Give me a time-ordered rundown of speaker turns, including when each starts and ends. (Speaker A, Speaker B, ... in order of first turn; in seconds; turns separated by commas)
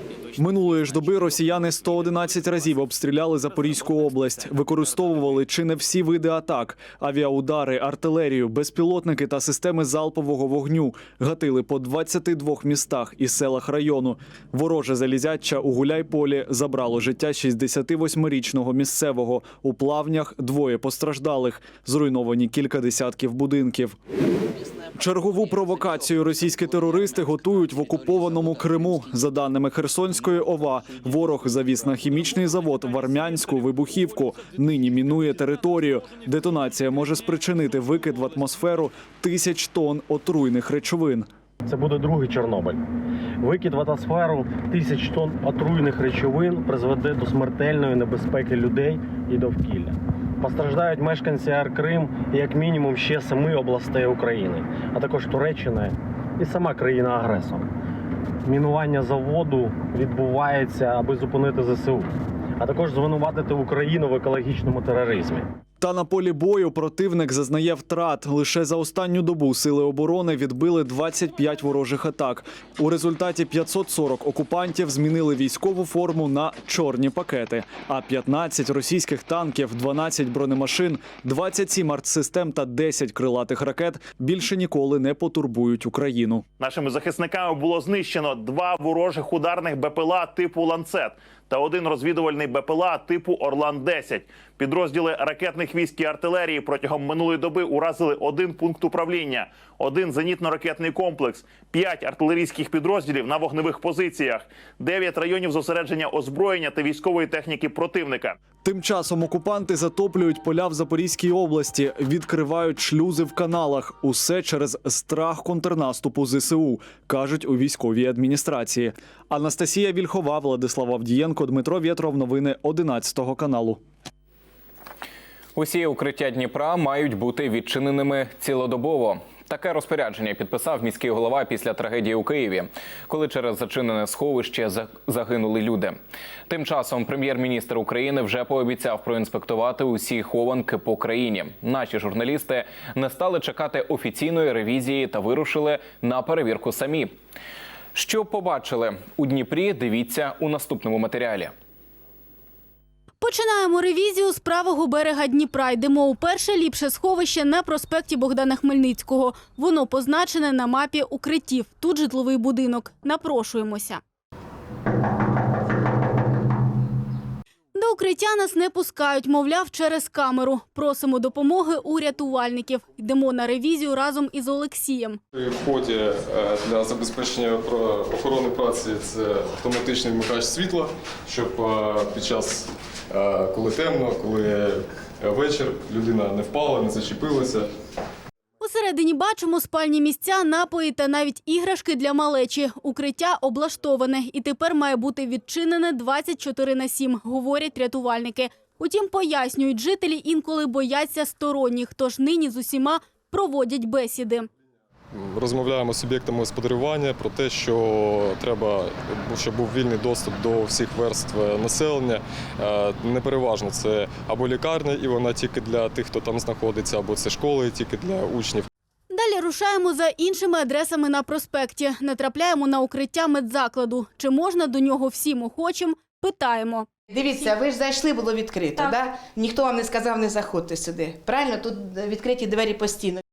Speaker A: 0.3-24.0, Speaker A: 24.9-41.3, Speaker B: 41.6-42.8, Speaker B: 43.4-57.7, Speaker B: 58.4-62.1, Speaker B: 62.6-65.5, Speaker A: 65.8-86.4, Speaker C: 86.6-108.4, Speaker A: 108.6-123.8, Speaker D: 125.5-136.0, Speaker D: 136.5-147.1, Speaker D: 147.9-151.5, Speaker E: 153.2-164.0, Speaker E: 167.7-175.2, Speaker F: 175.3-187.7, Speaker E: 188.6-204.5, Speaker F: 205.1-218.7, Speaker E: 219.1-226.9, Speaker G: 227.1-233.2